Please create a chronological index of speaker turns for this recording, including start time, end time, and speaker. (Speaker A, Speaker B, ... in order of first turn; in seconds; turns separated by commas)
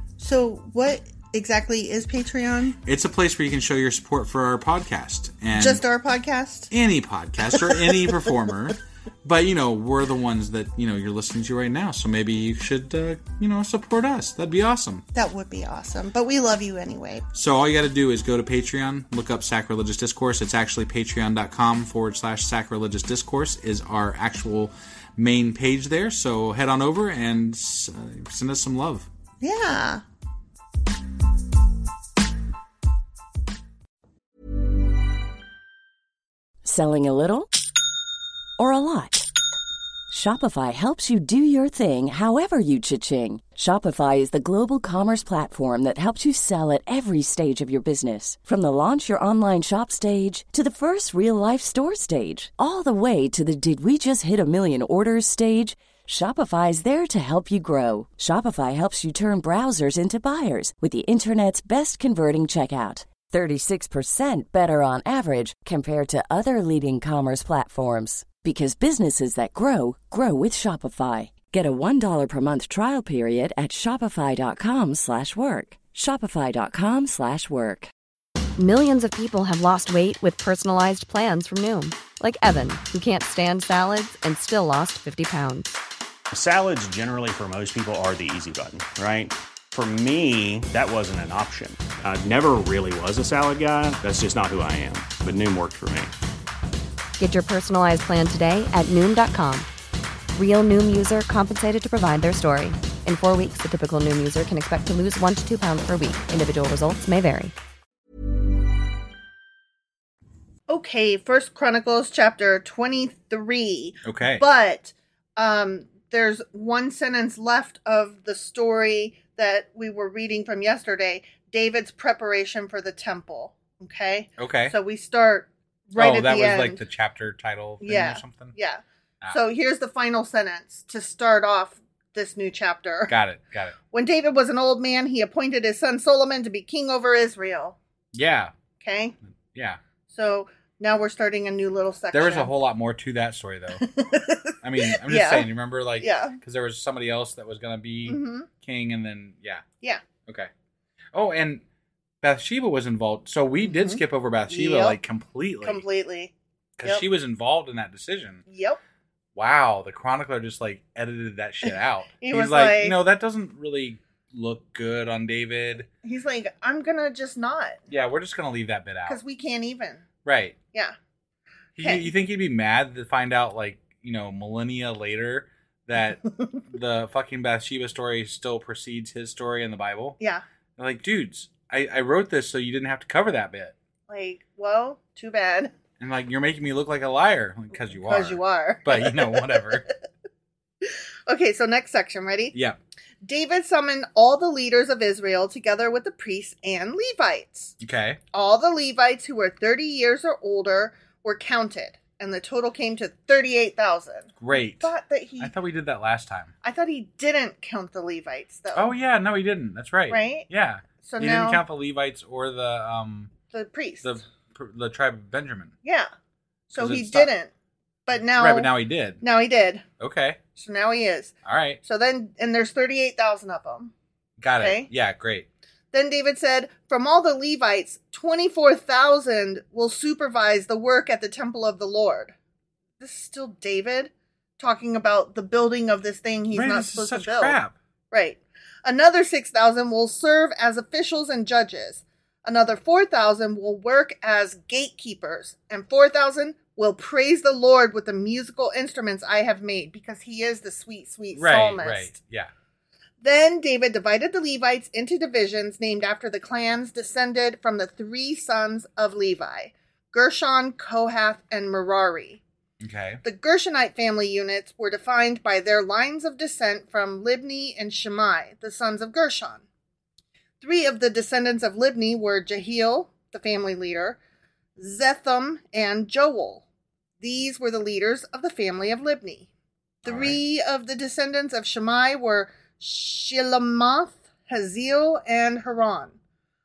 Speaker A: 0.2-2.8, Speaker B: 2.9-5.8, Speaker A: 5.6-6.7, Speaker B: 6.7-15.0, Speaker A: 15.1-17.2, Speaker B: 17.3-29.1, Speaker A: 29.4-30.0, Speaker C: 36.6-37.5, Speaker C: 38.6-39.3, Speaker C: 40.1-77.9, Speaker D: 78.6-85.7, Speaker E: 86.3-96.1, Speaker D: 97.2-99.7, Speaker D: 100.3-107.5, Speaker A: 110.7-126.8, Speaker B: 114.0-114.4, Speaker B: 124.4-124.8, Speaker B: 126.0-128.6, Speaker A: 127.8-133.1, Speaker B: 133.1-133.8, Speaker A: 133.9-137.8, Speaker B: 138.1-138.5, Speaker A: 138.8-139.2, Speaker B: 139.5-139.8, Speaker A: 140.1-142.5, Speaker B: 142.1-143.8, Speaker A: 143.8-145.5, Speaker B: 144.6-149.6, Speaker A: 146.0-146.4, Speaker A: 148.1-148.5, Speaker B: 151.1-151.6, Speaker B: 152.2-155.8, Speaker A: 153.6-155.0, Speaker A: 155.6-156.3, Speaker B: 156.8-158.4, Speaker A: 158.5-158.8, Speaker B: 159.4-165.9, Speaker A: 162.2-163.0, Speaker A: 166.0-167.8, Speaker B: 167.9-169.2, Speaker A: 169.1-170.0, Speaker B: 170.2-170.6, Speaker B: 171.8-180.2, Speaker B: 180.8-183.7, Speaker A: 184.1-185.7, Speaker B: 186.0-189.9, Speaker A: 188.0-189.8, Speaker A: 190.8-192.6, Speaker A: 193.2-197.7, Speaker B: 197.8-198.2, Speaker A: 198.3-205.5, Speaker B: 204.4-206.5, Speaker A: 206.6-208.9, Speaker B: 208.7-213.3, Speaker A: 210.1-210.5, Speaker A: 211.0-211.6, Speaker A: 213.5-214.2, Speaker B: 214.0-215.7, Speaker A: 215.8-216.1, Speaker A: 216.7-217.5, Speaker B: 216.8-217.3, Speaker A: 218.1-218.7, Speaker B: 218.3-219.2, Speaker A: 219.2-219.8, Speaker B: 220.0-220.4, Speaker A: 220.5-223.9, Speaker B: 221.4-221.8, Speaker B: 224.4-225.5, Speaker A: 224.6-224.9, Speaker A: 225.9-232.3, Speaker A: 233.0-237.6, Speaker B: 236.5-237.7, Speaker A: 238.1-252.1, Speaker B: 251.3-252.5, Speaker A: 253.2-262.4, Speaker B: 262.8-263.2, Speaker A: 263.2-269.6, Speaker A: 270.6-274.2, Speaker A: 274.8-276.6, Speaker A: 277.2-279.5, Speaker B: 280.1-280.4, Speaker A: 280.1-286.2